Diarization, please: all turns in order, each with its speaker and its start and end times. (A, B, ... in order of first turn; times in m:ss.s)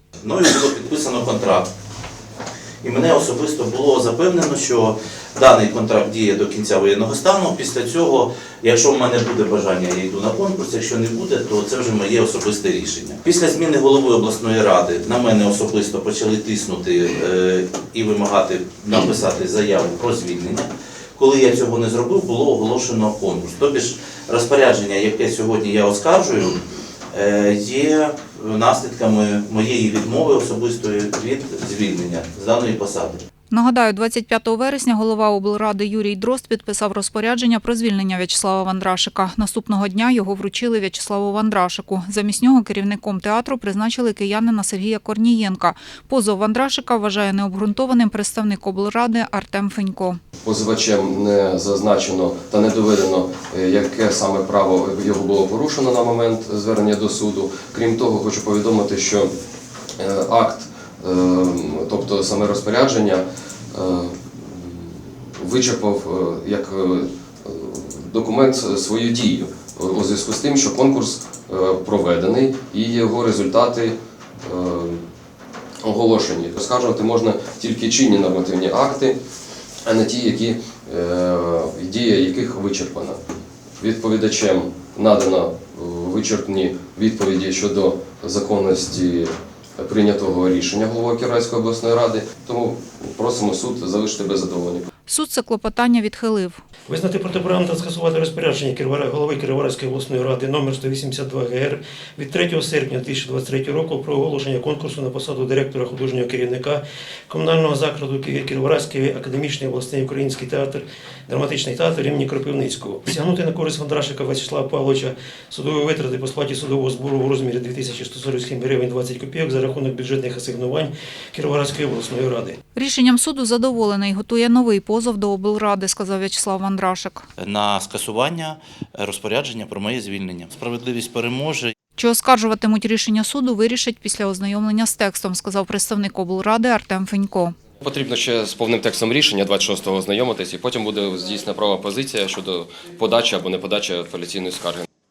0:00.2-0:01.7 A
0:02.8-0:26.6 A
0:27.1-0:33.2 A
0:33.5-0:50.2 B
0:50.4-0:59.3 C
1:00.0-1:15.0 C
1:15.8-1:19.2 C
1:19.8-1:23.2 C
1:23.8-1:34.8 C
1:35.1-1:36.6 B
1:36.9-2:02.6 D
2:02.8-2:07.2 B
2:07.4-2:11.7 A
2:12.0-2:17.5 B
2:17.8-2:24.8 C